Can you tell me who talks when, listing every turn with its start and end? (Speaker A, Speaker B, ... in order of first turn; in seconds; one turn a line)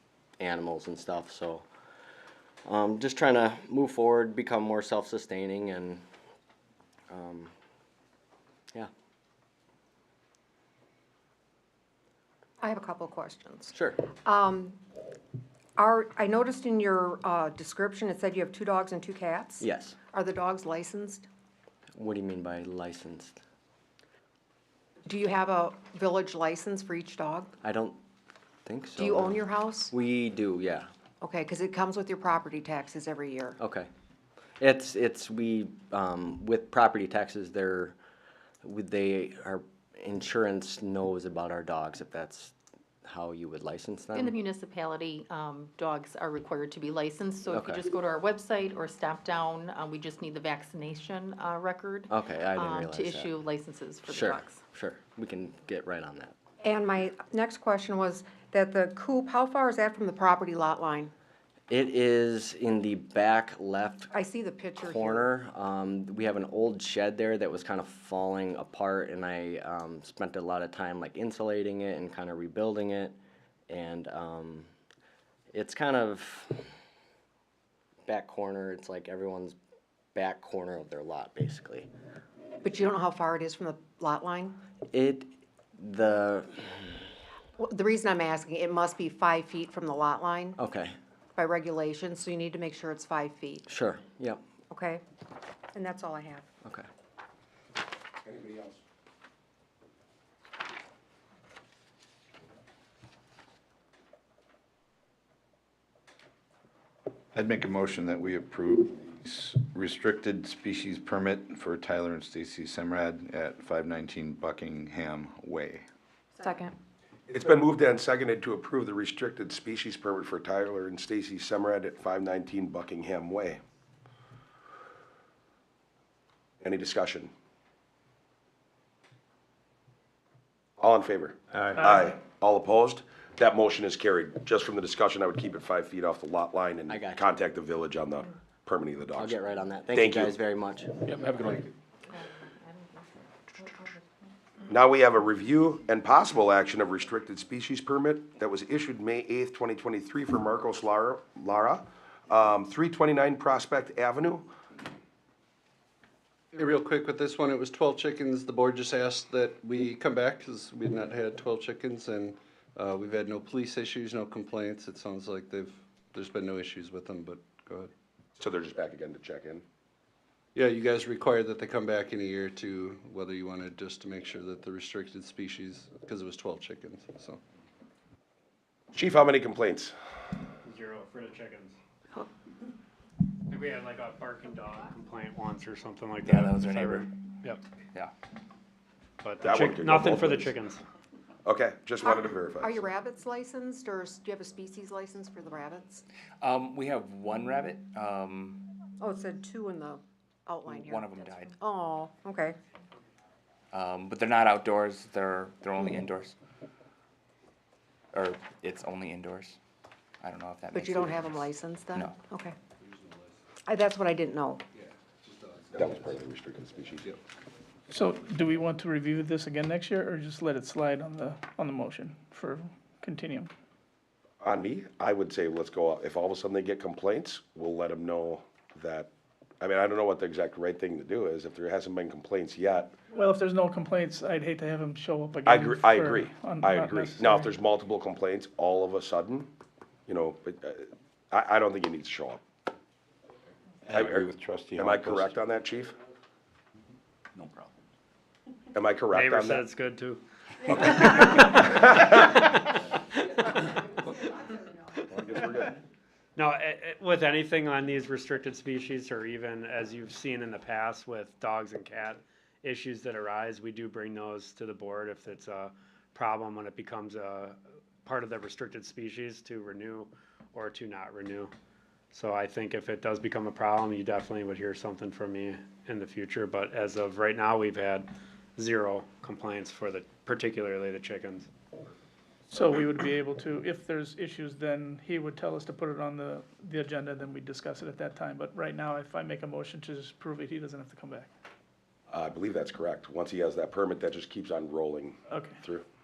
Speaker A: 0.4-1.7
Speaker A: 2.6-6.0
Speaker A: 7.1-7.5
Speaker B: 12.6-14.8
Speaker A: 13.7-14.1
Speaker B: 15.8-21.3
Speaker A: 19.6-20.0
Speaker A: 21.9-23.4
Speaker B: 25.1-27.6
Speaker A: 27.6-28.0
Speaker A: 28.7-30.9
Speaker B: 29.0-29.9
Speaker B: 31.2-33.6
Speaker A: 33.6-33.9
Speaker A: 34.6-38.0
Speaker A: 38.6-42.5
Speaker A: 43.0-44.4
Speaker C: 44.1-54.6
Speaker A: 47.5-47.9
Speaker A: 52.1-53.3
Speaker A: 54.1-56.4
Speaker B: 56.6-61.1
Speaker A: 61.7-64.1
Speaker B: 64.1-65.3
Speaker A: 64.8-73.2
Speaker A: 73.7-74.7
Speaker A: 75.5-76.6
Speaker A: 78.1-79.6
Speaker A: 80.2-81.9
Speaker B: 82.6-84.6
Speaker A: 84.9-87.0
Speaker B: 87.6-90.6
Speaker A: 90.6-91.0
Speaker B: 91.4-93.7
Speaker A: 93.7-94.4
Speaker B: 94.7-95.0
Speaker B: 95.7-96.5
Speaker D: 98.2-98.8
Speaker E: 107.3-115.8
Speaker D: 117.3-123.6
Speaker D: 126.6-127.3
Speaker D: 130.8-131.4
Speaker D: 131.9-139.4
Speaker A: 136.9-137.3
Speaker A: 139.2-141.5
Speaker D: 139.9-140.3
Speaker C: 142.1-144.3
Speaker D: 144.7-154.5
Speaker F: 156.5-167.9
Speaker D: 168.4-169.6
Speaker F: 170.6-177.4
Speaker D: 178.9-179.9
Speaker G: 180.7-181.8
Speaker G: 183.5-187.6
Speaker H: 186.2-187.1
Speaker G: 189.2-190.8
Speaker D: 189.4-190.5
Speaker D: 191.4-192.8
Speaker B: 192.0-196.0
Speaker H: 196.4-198.7
Speaker B: 199.0-202.6
Speaker H: 200.6-201.6
Speaker H: 203.7-206.4
Speaker H: 208.1-209.6
Speaker H: 210.2-212.2
Speaker B: 210.7-212.6
Speaker F: 212.8-213.3
Speaker B: 213.7-214.6
Speaker F: 214.7-216.2
Speaker D: 215.7-217.2
Speaker I: 217.9-223.5
Speaker D: 224.4-232.9
Speaker I: 233.1-237.5
Speaker D: 235.5-239.5
Speaker D: 240.1-242.4
Speaker E: 243.9-245.3
Speaker D: 244.8-245.9
Speaker H: 247.3-247.7
Speaker D: 248.8-249.6
Speaker G: 249.1-252.5
Speaker D: 255.1-255.8
Speaker G: 256.4-271.5
Speaker G: 272.1-281.5
Speaker I: 282.5-291.3
Speaker D: 292.1-295.8
Speaker I: 295.3-295.6